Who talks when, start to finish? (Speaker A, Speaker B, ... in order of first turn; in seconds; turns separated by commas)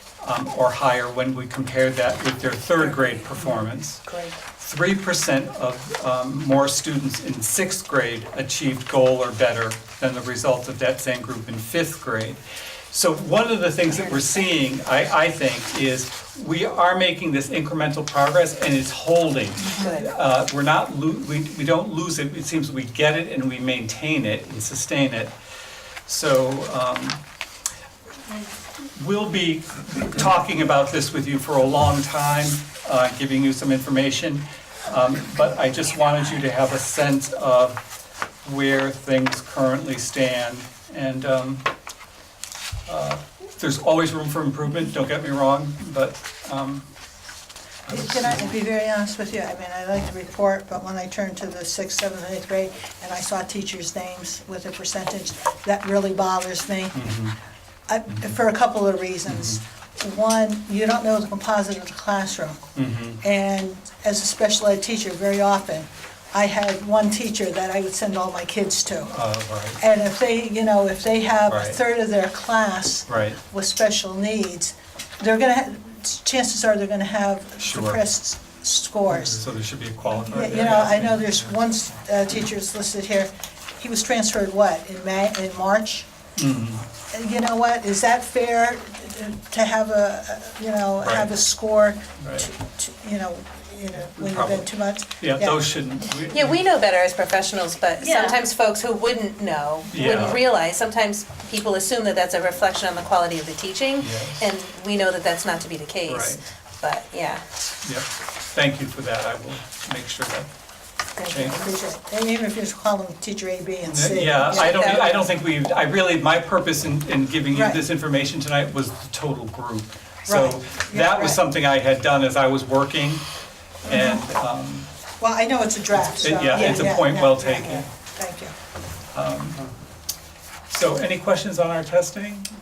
Speaker A: 0.2-12.4, Speaker B: 2.8-4.4, Speaker A: 12.9-25.3, Speaker B: 13.9-14.3, Speaker B: 19.8-20.1, Speaker A: 26.1-27.2, Speaker A: 28.2-37.8, Speaker A: 38.4-41.6, Speaker A: 42.9-46.9, Speaker A: 47.9-48.5, Speaker C: 47.9-57.1, Speaker A: 56.9-57.3, Speaker C: 57.9-69.1, Speaker A: 59.3-59.6, Speaker A: 62.8-63.2, Speaker A: 69.1-69.8, Speaker C: 69.8-79.5, Speaker A: 71.5-71.8, Speaker A: 73.1-73.4, Speaker A: 77.6-78.0, Speaker A: 79.1-81.5, Speaker C: 80.1-86.1, Speaker A: 86.4-86.8, Speaker C: 87.1-95.7, Speaker A: 91.0-91.3, Speaker A: 92.2-92.5, Speaker A: 94.2-94.7, Speaker A: 95.2-96.6, Speaker B: 96.3-107.4, Speaker A: 99.9-100.5, Speaker A: 104.0-104.5, Speaker A: 106.0-106.4, Speaker A: 107.8-110.5, Speaker B: 111.2-111.5, Speaker A: 111.2-111.7, Speaker C: 111.3-114.7, Speaker A: 113.8-123.2, Speaker B: 114.4-115.3, Speaker C: 117.5-117.8, Speaker C: 120.2-121.4, Speaker A: 123.8-124.9, Speaker C: 123.8-124.2, Speaker C: 125.2-128.5, Speaker A: 126.1-127.9, Speaker A: 129.1-129.6, Speaker A: 130.7-132.5